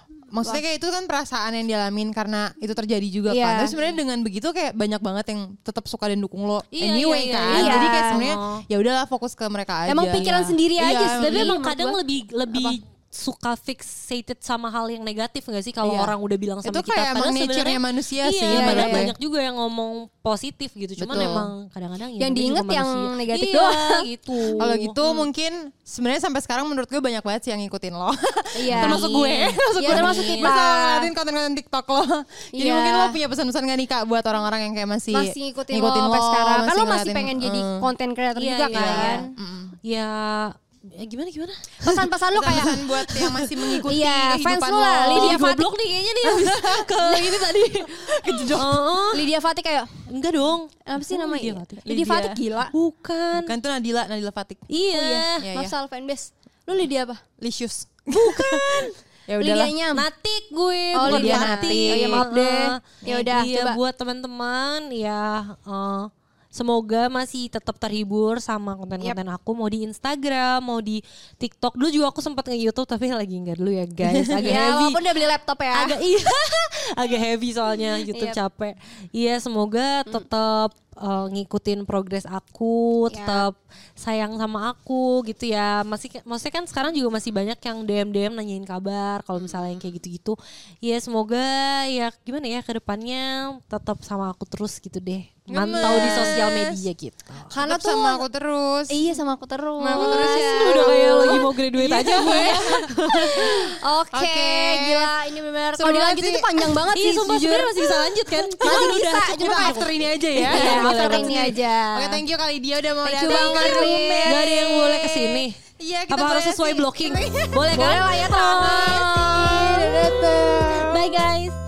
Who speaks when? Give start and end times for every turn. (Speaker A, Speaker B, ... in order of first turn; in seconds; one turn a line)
Speaker A: 0.3-11.6
Speaker B: 3.3-3.7
Speaker C: 6.7-8.6
Speaker B: 7.5-8.2
Speaker B: 9.9-12.0
Speaker C: 11.2-24.8
Speaker A: 15.8-16.1
Speaker A: 16.6-19.1
Speaker B: 18.5-19.1
Speaker A: 21.0-21.5
Speaker B: 21.1-21.4
Speaker B: 22.2-25.2
Speaker A: 24.6-37.8
Speaker B: 28.5-31.1
Speaker C: 28.7-30.6
Speaker B: 32.5-33.2
Speaker B: 35.1-39.3
Speaker C: 38.4-39.2
Speaker A: 38.7-39.8
Speaker C: 39.8-42.0
Speaker B: 41.8-43.1
Speaker A: 42.3-45.4
Speaker C: 43.2-43.7
Speaker B: 43.8-45.7
Speaker C: 45.1-47.9
Speaker A: 46.2-47.4
Speaker B: 47.0-50.0
Speaker A: 48.2-48.6
Speaker C: 48.5-49.3
Speaker C: 50.1-51.8
Speaker B: 50.9-52.7
Speaker A: 51.9-52.4
Speaker C: 52.7-53.5
Speaker A: 53.4-54.7
Speaker C: 54.7-55.5
Speaker B: 54.9-57.2
Speaker A: 55.4-55.7
Speaker A: 57.4-59.9
Speaker C: 58.2-58.9
Speaker B: 59.4-60.0
Speaker C: 59.9-75.1
Speaker B: 60.9-63.8
Speaker A: 61.0-62.3
Speaker A: 74.2-74.6
Speaker B: 74.4-76.0
Speaker C: 75.7-97.5
Speaker B: 78.1-78.4
Speaker B: 83.1-83.5
Speaker A: 95.5-96.6
Speaker B: 95.8-96.7
Speaker B: 97.5-98.2
Speaker A: 97.6-99.1
Speaker B: 98.9-101.4
Speaker A: 99.8-105.2
Speaker C: 99.9-103.6
Speaker B: 103.1-109.8
Speaker A: 105.8-106.7
Speaker C: 106.9-111.6
Speaker A: 108.6-115.2
Speaker B: 110.4-112.2
Speaker B: 113.0-115.2
Speaker C: 113.3-115.6
Speaker A: 115.8-121.0
Speaker C: 116.1-121.6
Speaker B: 117.7-119.7